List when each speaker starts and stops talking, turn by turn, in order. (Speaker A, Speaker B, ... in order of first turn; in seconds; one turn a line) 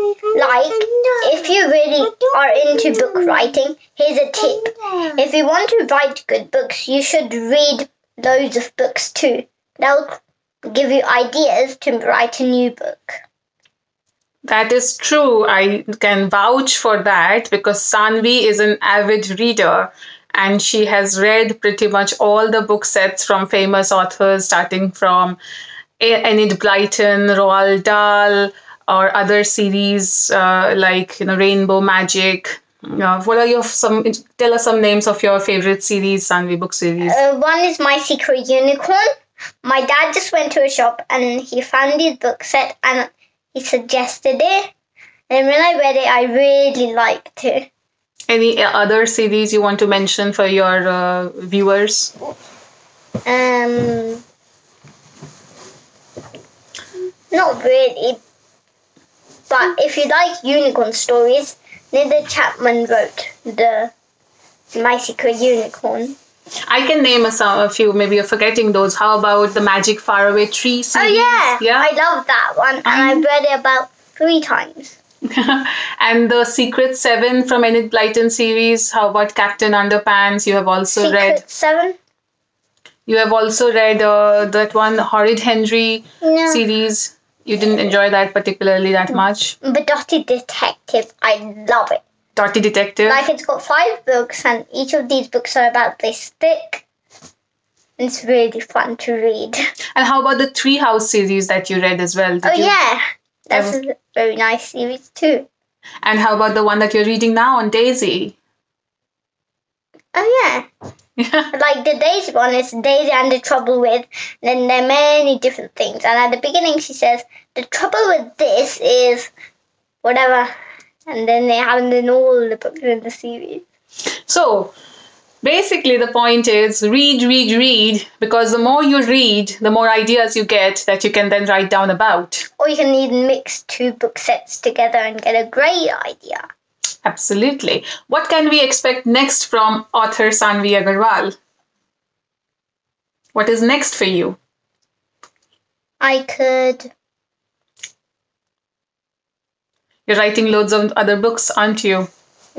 Speaker A: 0.3-13.2
Speaker B: 14.4-25.4
Speaker B: 26.0-37.2
Speaker A: 37.0-39.1
Speaker A: 39.6-44.7
Speaker A: 45.3-47.7
Speaker B: 48.3-52.1
Speaker A: 53.2-54.2
Speaker A: 57.3-58.2
Speaker A: 59.5-63.9
Speaker A: 64.7-66.2
Speaker B: 66.7-71.9
Speaker A: 70.9-75.0
Speaker B: 72.8-73.2
Speaker B: 75.3-81.4
Speaker A: 81.0-82.0
Speaker B: 83.0-89.5
Speaker A: 86.2-86.6
Speaker A: 89.6-92.0
Speaker B: 92.3-93.2
Speaker A: 93.1-96.8
Speaker A: 98.0-99.7
Speaker B: 99.9-102.7
Speaker A: 102.4-105.5
Speaker B: 103.5-103.8
Speaker B: 106.0-108.4
Speaker A: 110.1-110.7
Speaker B: 111.2-111.5
Speaker A: 111.5-119.3
Speaker A: 120.0-120.5
Speaker A: 121.1-123.6
Speaker B: 124.3-124.7
Speaker B: 125.4-132.5
Speaker A: 132.6-136.4
Speaker B: 137.0-141.3
Speaker B: 143.3-144.4
Speaker A: 146.0-146.9
Speaker B: 150.1-152.1